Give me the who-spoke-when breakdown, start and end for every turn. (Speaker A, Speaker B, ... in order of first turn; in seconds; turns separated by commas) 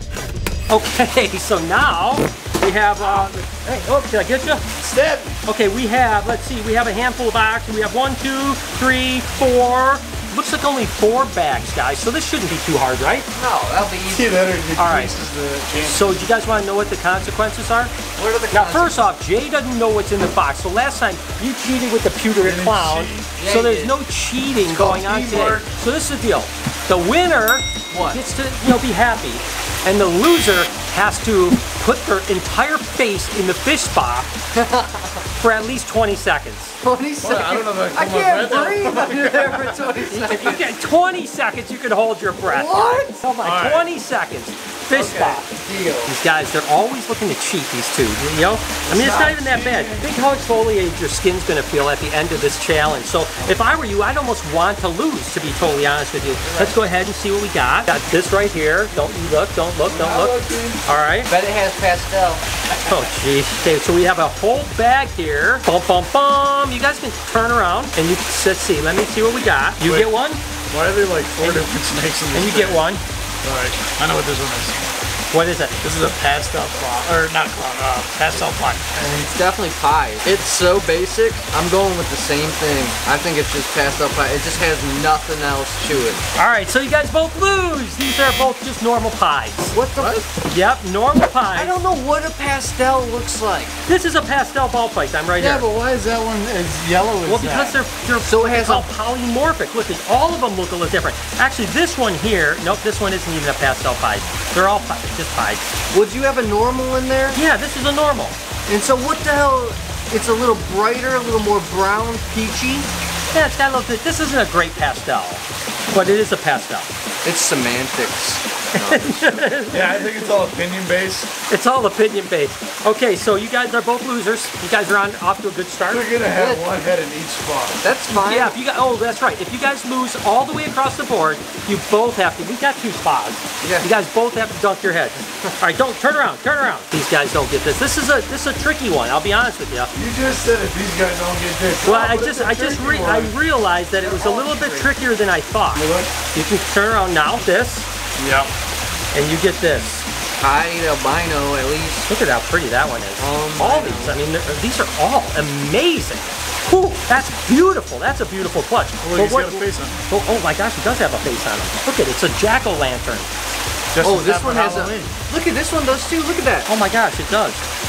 Speaker A: 0.7-4.7, Speaker B: 4.8-5.3, Speaker A: 5.5-13.3, Speaker C: 13.3-14.6, Speaker B: 14.1-16.3, Speaker A: 14.8-15.2, Speaker A: 15.8-17.9, Speaker C: 18.2-19.1, Speaker A: 18.5-34.3, Speaker B: 22.4-23.3, Speaker C: 23.4-23.9, Speaker B: 24.6-25.7, Speaker C: 27.9-28.2, Speaker C: 34.5-35.2, Speaker A: 35.4-36.8, Speaker C: 36.8-40.8, Speaker B: 37.2-40.0, Speaker A: 40.1-45.5, Speaker C: 42.5-43.3, Speaker B: 43.4-43.9, Speaker B: 44.9-45.3, Speaker C: 45.0-46.1, Speaker A: 46.1-61.3, Speaker B: 48.9-50.1, Speaker B: 59.9-60.8, Speaker C: 61.3-62.4, Speaker A: 62.9-70.4, Speaker B: 69.8-70.1, Speaker B: 70.7-72.9, Speaker A: 71.4-71.7, Speaker A: 72.3-73.0, Speaker B: 73.4-74.9, Speaker A: 75.3-75.8, Speaker B: 75.8-79.0, Speaker C: 79.0-86.2, Speaker A: 86.4-89.8, Speaker C: 89.7-90.3, Speaker A: 90.4-91.8, Speaker C: 91.5-93.8, Speaker A: 93.9-95.7, Speaker B: 95.4-97.8, Speaker A: 97.2-105.7, Speaker C: 98.2-98.9, Speaker C: 105.9-107.4, Speaker A: 107.3-108.4, Speaker C: 108.7-112.9, Speaker A: 113.3-116.9, Speaker C: 117.2-119.5, Speaker A: 118.7-120.3, Speaker B: 119.7-121.3, Speaker A: 121.5-126.1, Speaker B: 125.9-127.8, Speaker C: 126.3-126.7, Speaker C: 127.8-128.6, Speaker A: 128.1-139.9, Speaker C: 133.6-133.9, Speaker B: 139.9-143.3, Speaker A: 141.8-147.9, Speaker B: 144.0-144.9, Speaker B: 145.8-146.1, Speaker B: 148.2-148.5, Speaker A: 149.1-150.1, Speaker C: 150.4-152.1, Speaker A: 152.1-163.3, Speaker C: 153.2-154.2, Speaker B: 159.0-160.0, Speaker B: 163.9-165.1, Speaker C: 164.0-166.7, Speaker A: 166.7-167.6